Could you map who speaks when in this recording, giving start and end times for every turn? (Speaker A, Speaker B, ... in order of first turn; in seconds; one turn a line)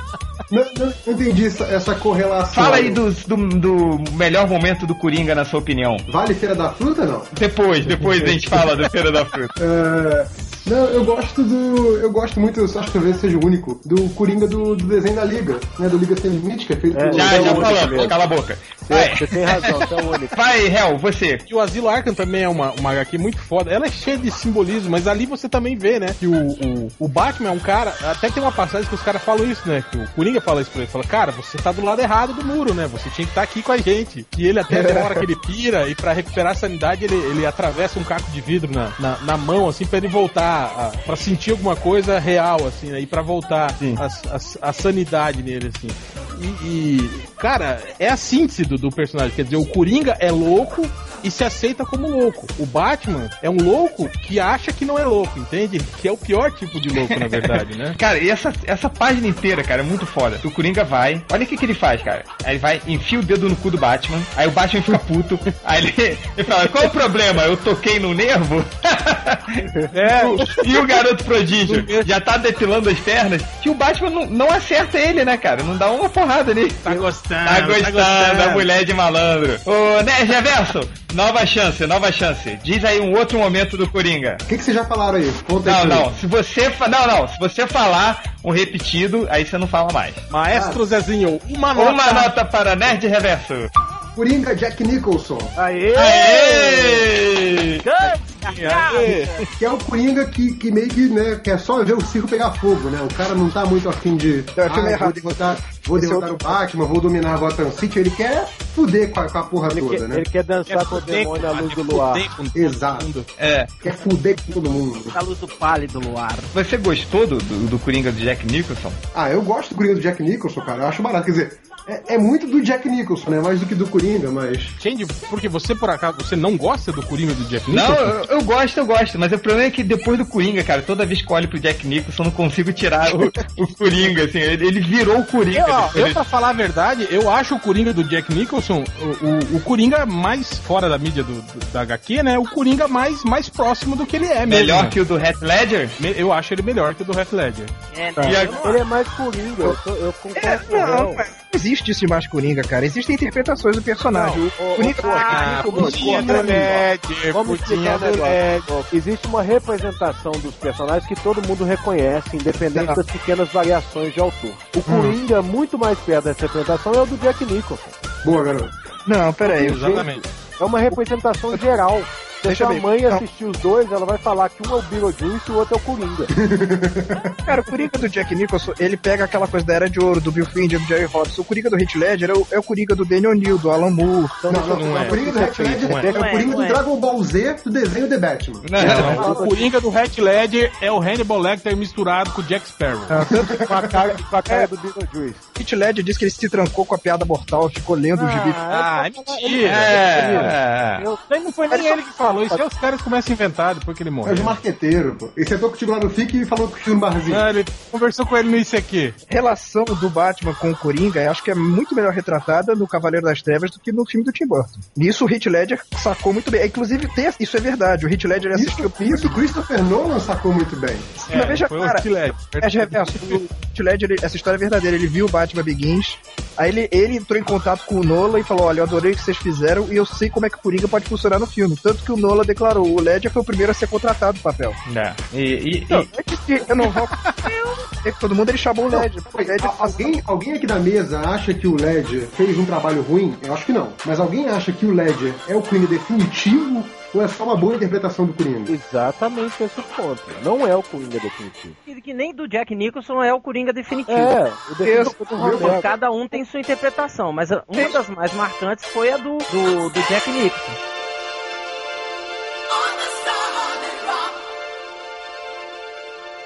Speaker A: 0.5-3.0
Speaker B: 2.5-6.0
Speaker A: 6.1-7.3
Speaker B: 7.3-9.5
Speaker A: 9.6-18.1
Speaker C: 16.9-18.1
Speaker B: 17.1-19.6
Speaker C: 18.9-20.3
Speaker B: 20.3-21.4
Speaker D: 21.5-58.0
Speaker E: 34.7-35.2
Speaker B: 57.1-69.6
Speaker D: 69.9-70.5
Speaker B: 70.5-84.4
Speaker D: 71.6-72.1
Speaker D: 76.8-78.7
Speaker A: 84.5-86.1
Speaker B: 85.6-90.3
Speaker D: 90.3-92.0
Speaker A: 90.5-90.8
Speaker B: 91.8-93.7
Speaker F: 91.8-92.3
Speaker A: 94.2-95.5
Speaker C: 95.5-97.1
Speaker B: 95.9-97.8
Speaker F: 97.8-99.4
Speaker D: 98.4-99.4
Speaker A: 99.6-110.2
Speaker E: 104.5-106.5
Speaker C: 109.7-112.2
Speaker D: 110.7-113.3
Speaker A: 112.5-113.1
Speaker B: 113.4-113.7
Speaker A: 113.8-115.2
Speaker F: 115.1-116.5
Speaker B: 116.5-119.0
Speaker A: 119.1-124.7
Speaker D: 124.8-128.2
Speaker B: 127.7-136.2
Speaker D: 135.5-144.9
Speaker B: 144.4-145.9
Speaker D: 146.0-147.7
Speaker F: 147.9-148.8
Speaker B: 148.2-148.5
Speaker C: 148.3-151.2
Speaker E: 150.3-156.7
Speaker C: 154.1-167.9
Speaker F: 154.8-156.4
Speaker D: 155.3-158.7
Speaker E: 164.9-165.1
Speaker A: 168.2-168.7
Speaker E: 169.1-170.1
Speaker D: 169.4-170.2
Speaker C: 170.6-176.3
Speaker E: 172.5-173.2
Speaker A: 176.3-177.3
Speaker E: 177.4-184.4
Speaker D: 184.5-186.3
Speaker C: 184.5-186.6
Speaker A: 184.5-189.4
Speaker F: 186.1-186.8
Speaker B: 188.6-189.3
Speaker D: 188.8-193.2
Speaker C: 188.8-189.7
Speaker E: 193.1-193.6
Speaker C: 193.2-195.4
Speaker A: 193.2-194.1
Speaker E: 195.6-198.6
Speaker D: 198.2-204.6
Speaker C: 198.3-200.5
Speaker B: 199.6-201.1
Speaker E: 201.7-202.0
Speaker A: 204.2-207.4
Speaker D: 207.3-209.2
Speaker E: 209.3-219.4
Speaker A: 218.5-221.3
Speaker D: 221.3-223.4
Speaker E: 221.3-222.1
Speaker E: 222.6-234.8
Speaker B: 234.9-236.1
Speaker E: 235.9-240.2
Speaker A: 238.9-248.7
Speaker C: 248.7-251.8
Speaker F: 251.8-254.3
Speaker C: 254.1-255.9
Speaker E: 254.8-255.7
Speaker A: 255.4-255.8
Speaker F: 255.4-260.8